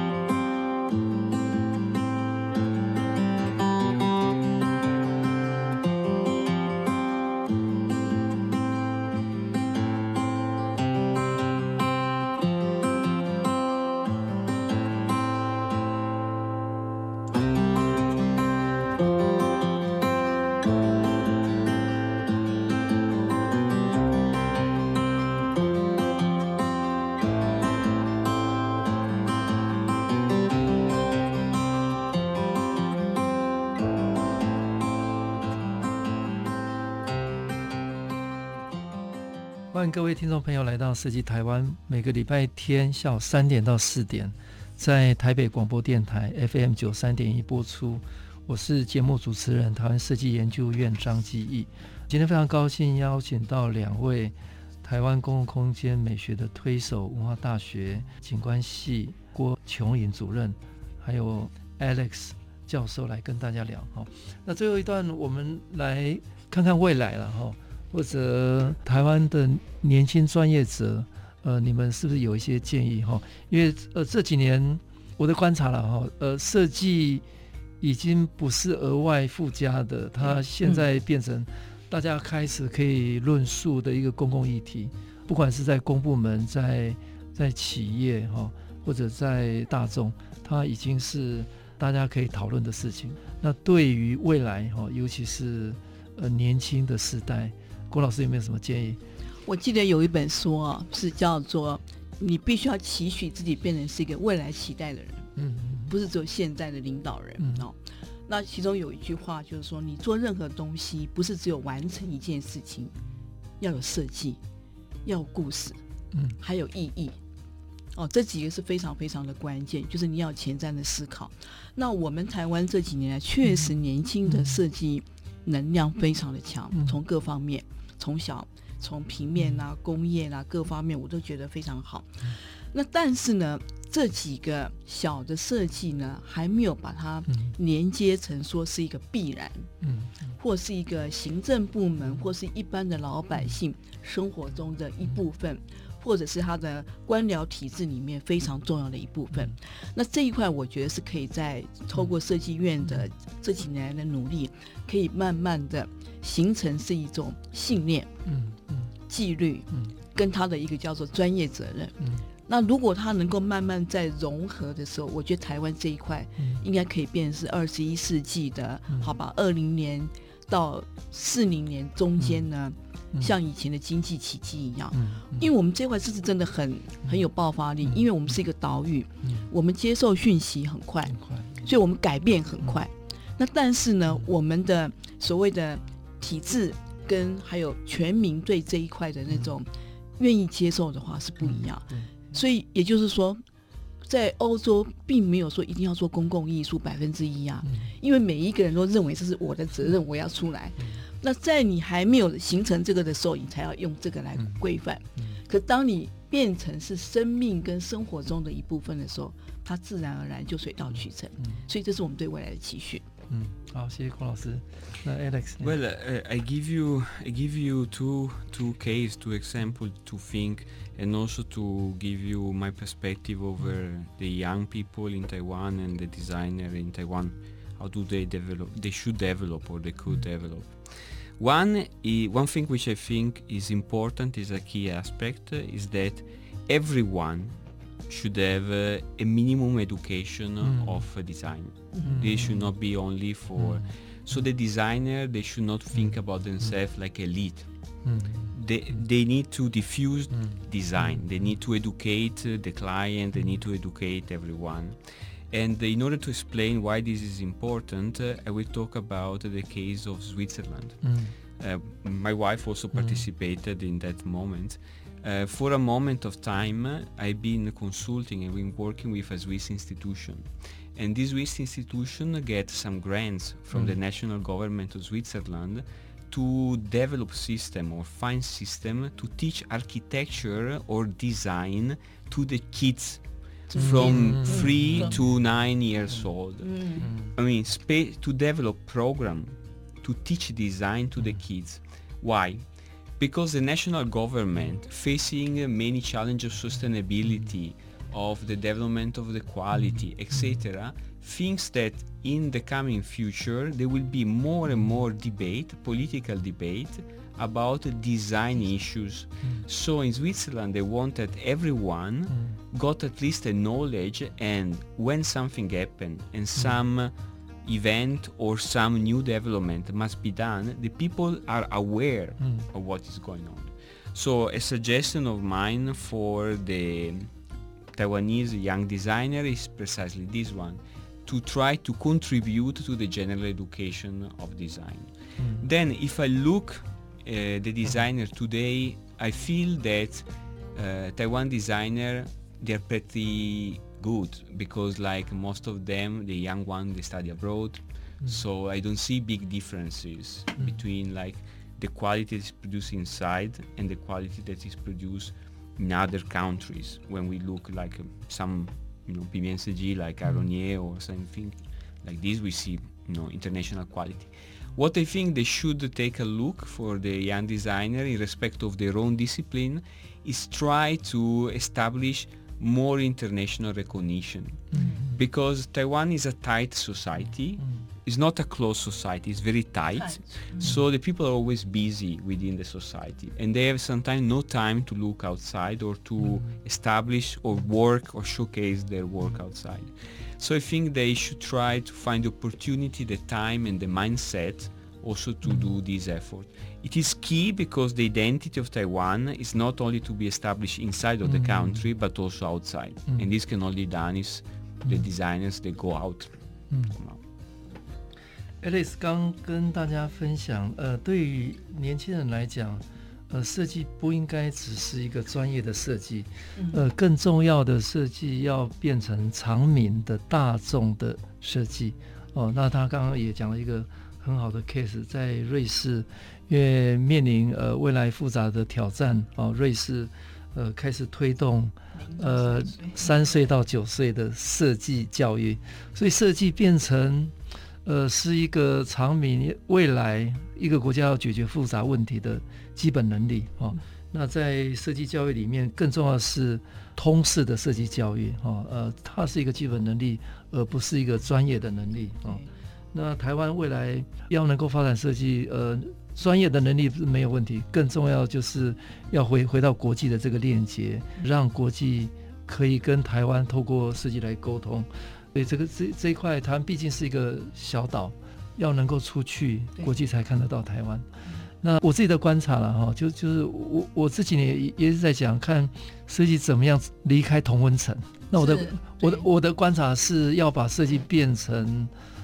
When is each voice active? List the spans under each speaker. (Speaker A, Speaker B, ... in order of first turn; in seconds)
Speaker A: 39.7-77.2, 77.8-99.0, 105.4-105.9, 139.8-140.1, 158.3-158.9, 174.9-175.4, 181.2-181.6, 213.3-215.7, 240.6-241.0, 242.1-242.5, 248.1-248.5, 261.0-261.3, 283.9-285.1, 335.4-335.6, 374.7-375.0, 408.6-452.4, 452.9-471.1, 471.6-481.9
Speaker B: 99.5-105.3, 105.9-112.9, 113.6-114.4, 115.0-115.8, 116.4-117.2, 118.0-139.7, 140.4-158.1, 159.1-193.4, 194.0-213.0, 241.9-242.2, 283.7-285.1, 286.6-287.1, 374.7-375.1, 380.0-380.7, 416.6-416.8, 431.9-433.2, 478.4-479.2
Speaker C: 215.6-247.7, 248.5-255.0, 255.5-292.6, 293.2-317.1, 317.6-327.3, 327.9-406.3, 406.9-407.2